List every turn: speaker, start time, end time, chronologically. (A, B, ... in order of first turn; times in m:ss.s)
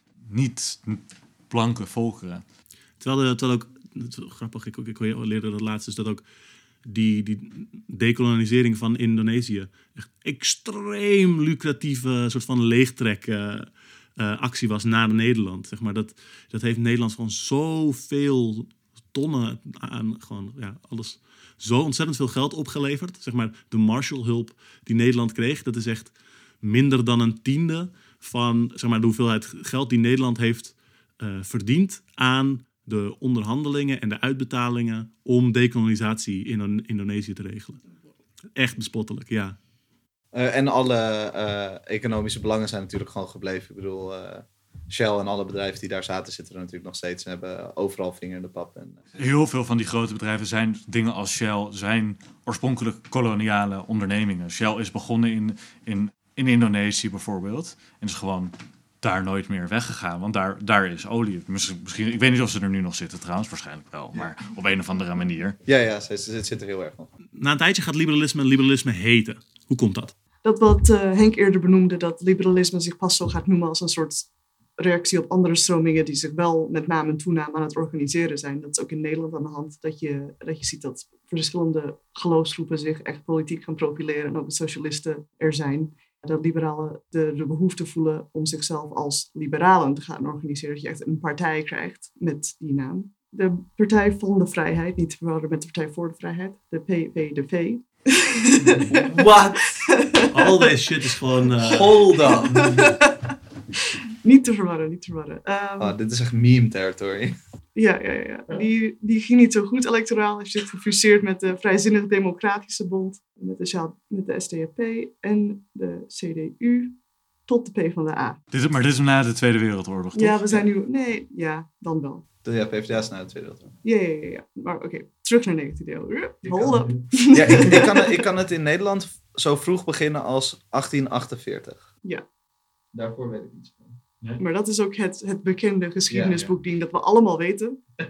0:00.3-0:02.4 A
0:03.0-0:06.2 B
0:06.9-0:37.8 B
0:38.6-0:39.6 B
0:40.3-0:49.0 C
0:49.2-1:05.6 A
1:05.7-1:07.1 C
1:07.4-1:10.1 B
1:10.4-1:40.7 D
1:39.1-1:39.7 C
1:40.3-1:42.1 B
1:41.6-1:42.9 C
1:42.2-1:43.1 D
1:44.2-1:45.9 D
1:45.8-1:47.3 C
1:47.8-1:57.0 D
1:57.5-1:58.4 D
1:58.5-2:00.7 A
2:00.2-2:02.2 D
2:02.4-2:03.7 C
2:03.8-2:08.2 D
2:06.5-2:11.8 C
2:12.9-2:14.0 C
2:14.4-2:17.8 D
2:16.1-2:16.5 C